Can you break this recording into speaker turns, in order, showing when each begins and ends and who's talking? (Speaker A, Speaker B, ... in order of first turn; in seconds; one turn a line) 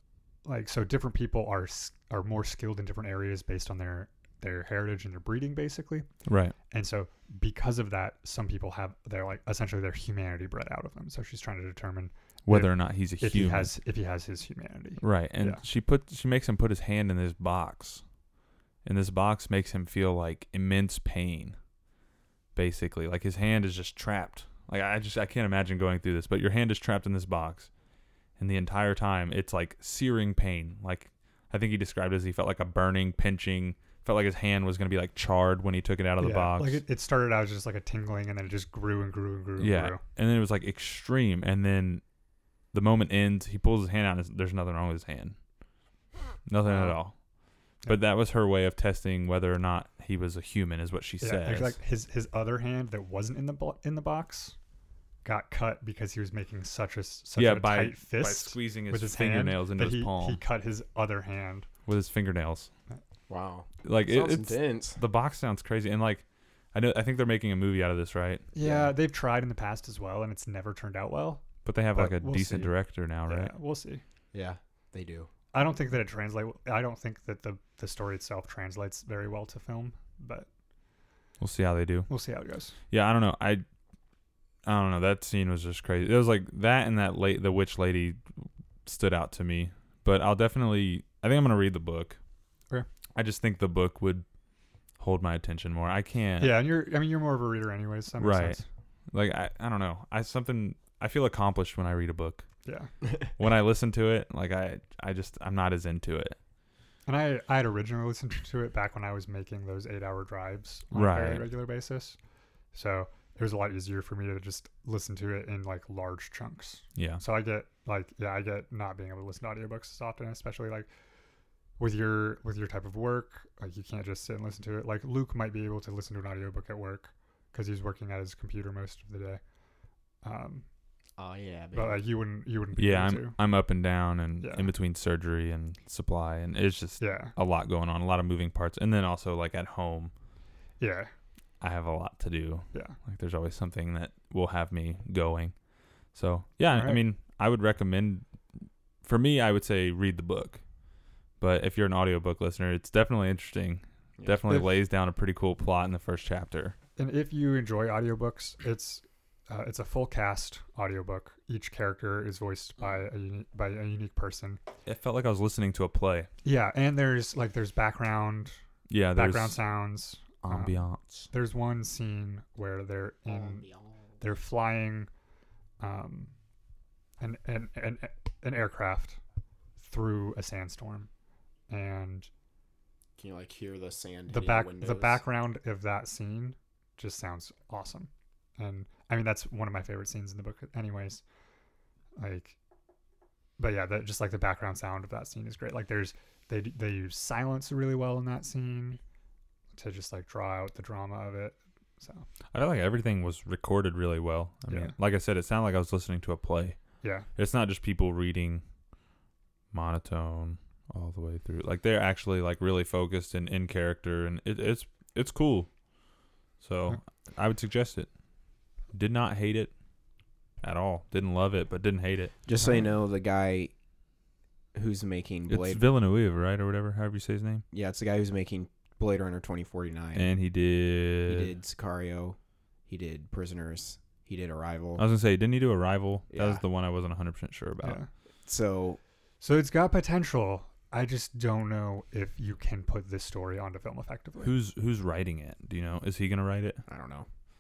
Speaker A: 0.5-6.1
Speaker B: 6.3-6.5
Speaker A: 6.7-15.6
Speaker B: 12.5-13.7
Speaker B: 15.0-18.0
Speaker B: 18.9-21.6
Speaker B: 22.6-27.7
Speaker B: 28.4-36.8
Speaker A: 36.2-40.0
Speaker B: 39.6-42.0
Speaker B: 42.7-45.4
Speaker B: 46.5-47.2
Speaker A: 46.6-47.0
Speaker B: 47.9-51.8
Speaker A: 51.2-54.6
Speaker A: 55.2-61.7
Speaker B: 57.4-60.4
Speaker B: 61.9-62.7
Speaker C: 63.3-65.0
Speaker B: 63.8-68.5
Speaker A: 68.5-74.0
Speaker C: 68.6-68.9
Speaker B: 71.7-73.5
Speaker C: 74.3-75.3
Speaker A: 75.5-80.5
Speaker B: 81.4-82.1
Speaker A: 82.1-82.8
Speaker B: 82.9-83.6
Speaker B: 84.7-92.2
Speaker B: 93.2-94.3
Speaker B: 95.0-96.6
Speaker A: 96.4-98.7
Speaker B: 98.2-98.6
Speaker B: 99.1-102.5
Speaker A: 102.7-102.9
Speaker B: 103.4-106.4
Speaker A: 107.1-112.2
Speaker B: 110.9-111.5
Speaker A: 112.7-120.9
Speaker B: 117.0-117.2
Speaker A: 121.8-129.4
Speaker A: 130.2-130.7
Speaker C: 131.2-132.0
Speaker A: 131.7-133.4
Speaker B: 132.8-140.1
Speaker A: 134.4-134.7
Speaker A: 137.0-137.3
Speaker A: 140.8-141.1
Speaker B: 141.6-145.6
Speaker B: 146.1-148.3
Speaker A: 146.7-147.0
Speaker B: 149.0-150.6
Speaker B: 151.4-156.8
Speaker A: 157.0-164.6
Speaker B: 164.9-166.3
Speaker A: 166.4-168.6
Speaker B: 168.9-169.6
Speaker A: 169.2-170.8
Speaker B: 170.4-171.3
Speaker A: 171.3-173.7
Speaker C: 173.3-174.0
Speaker A: 174.2-175.1
Speaker A: 175.8-176.3
Speaker A: 177.2-179.2
Speaker A: 179.8-181.1
Speaker A: 181.7-182.3
Speaker C: 183.2-185.2
Speaker A: 184.3-191.2
Speaker A: 192.2-192.6
Speaker A: 193.6-199.0
Speaker A: 199.7-202.3
Speaker B: 202.5-206.8
Speaker A: 204.7-204.9
Speaker A: 207.0-207.3
Speaker B: 207.4-208.6
Speaker B: 209.7-215.7
Speaker B: 216.6-218.1
Speaker B: 218.9-219.7
Speaker B: 220.6-222.3
Speaker C: 222.5-223.7
Speaker C: 224.8-225.8
Speaker B: 225.5-227.7
Speaker C: 227.7-230.3
Speaker B: 230.2-231.5
Speaker C: 231.3-232.4
Speaker C: 232.9-235.0
Speaker B: 235.0-238.0
Speaker C: 236.3-236.6
Speaker A: 237.8-238.1
Speaker C: 238.4-239.0
Speaker A: 239.4-244.5
Speaker B: 244.4-246.8
Speaker C: 246.9-247.3